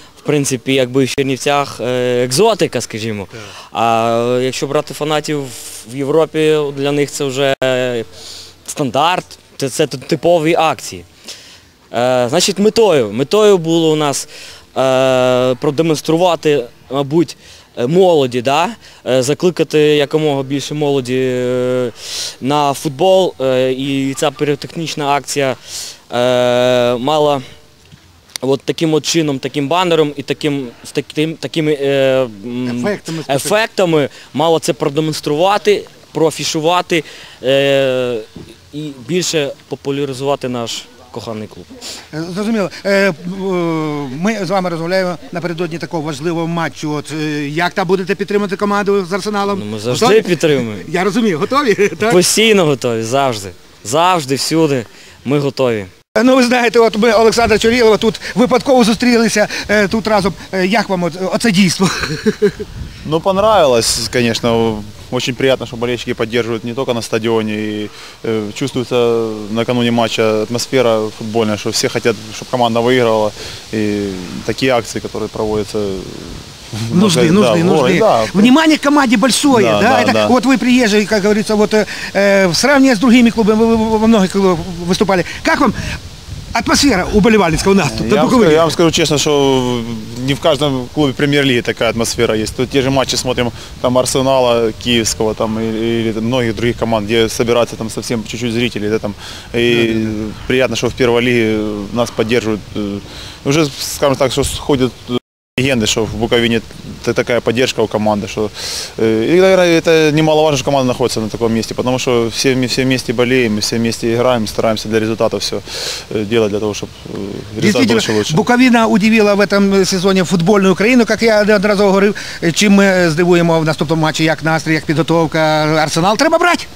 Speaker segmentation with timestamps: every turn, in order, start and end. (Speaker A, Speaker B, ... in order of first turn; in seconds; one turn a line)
Speaker A: 0.2-8.1
Speaker A: 8.7-11.1
Speaker A: 11.9-25.6
Speaker A: 26.1-27.4
Speaker A: 28.4-41.7
Speaker B: 32.7-33.6
Speaker B: 42.1-52.2
Speaker A: 49.5-50.9
Speaker A: 52.1-55.9
Speaker B: 56.2-62.6
Speaker C: 63.0-78.5
Speaker B: 77.0-85.8
Speaker C: 79.5-80.3
Speaker B: 86.5-88.6
Speaker C: 87.8-118.5
Speaker B: 117.6-126.7